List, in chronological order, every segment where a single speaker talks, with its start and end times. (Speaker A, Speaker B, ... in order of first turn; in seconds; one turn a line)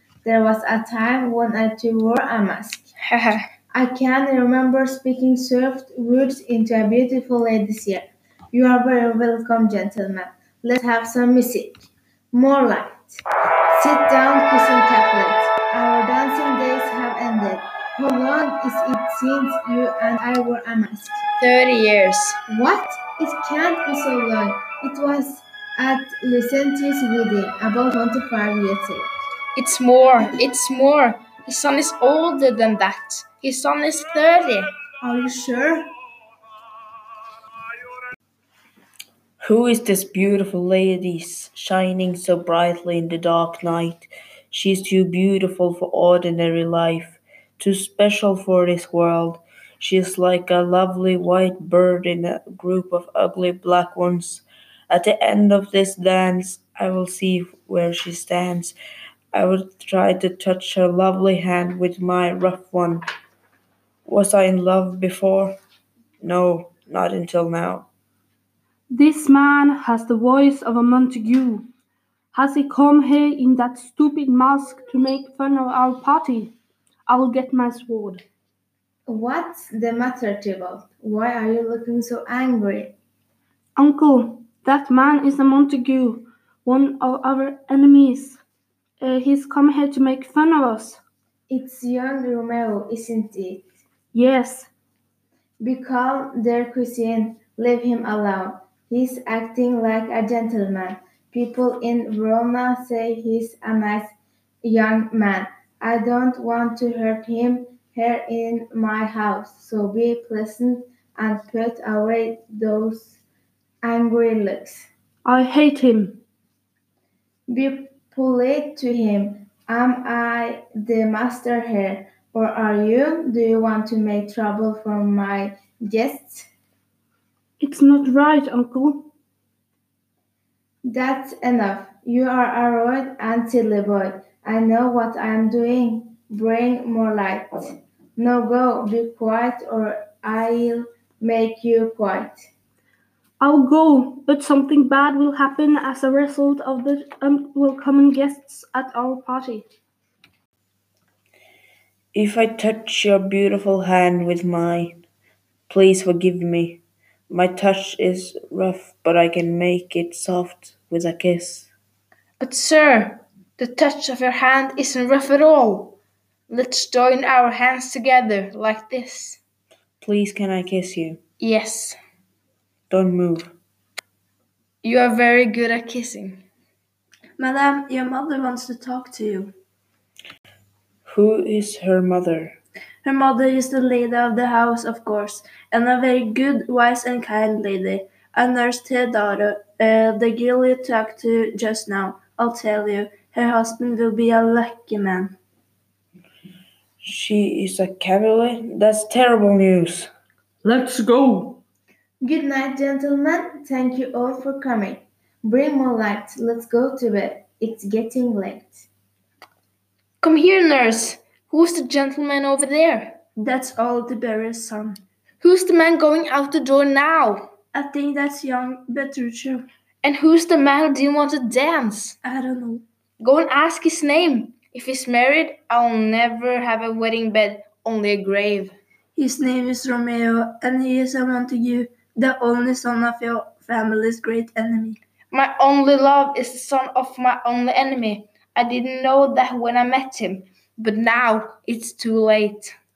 Speaker A: 0.2-2.9
Speaker A: 3.7-13.2
Speaker A: 13.7-21.2
Speaker B: 21.4-22.4
Speaker A: 22.5-29.1
Speaker B: 29.6-34.7
Speaker A: 35.0-35.9
Speaker C: 39.4-58.8
Speaker C: 59.3-63.0
Speaker C: 64.0-65.6
Speaker C: 66.2-67.9
Speaker D: 68.9-71.7
Speaker D: 72.3-76.5
Speaker D: 77.1-78.2
Speaker A: 79.1-82.9
Speaker D: 83.8-88.4
Speaker D: 89.0-91.0
Speaker A: 91.5-93.7
Speaker D: 94.2-94.7
Speaker A: 95.6-104.1
Speaker A: 104.6-113.2
Speaker A: 113.8-114.9
Speaker A: 117.5-126.5
Speaker D: 127.6-129.0
Speaker A: 130.8-142.5
Speaker D: 143.4-149.7
Speaker C: 152.1-155.0
Speaker C: 155.7-161.7
Speaker B: 162.4-166.0
Speaker B: 166.5-169.4
Speaker C: 170.0-171.2
Speaker B: 171.4-172.0
Speaker C: 172.9-173.5
Speaker B: 174.8-176.4
Speaker E: 177.4-179.5
Speaker C: 181.1-182.6
Speaker E: 183.0-195.4
Speaker C: 197.0-200.1
Speaker A: 202.2-208.9
Speaker B: 210.2-213.2
Speaker E: 213.4-215.0
Speaker B: 215.4-217.5
Speaker E: 217.7-219.7
Speaker B: 220.0-222.2
Speaker E: 222.2-222.8
Speaker B: 223.2-228.8
Speaker E: 229.2-235.0
Speaker B: 235.3-242.7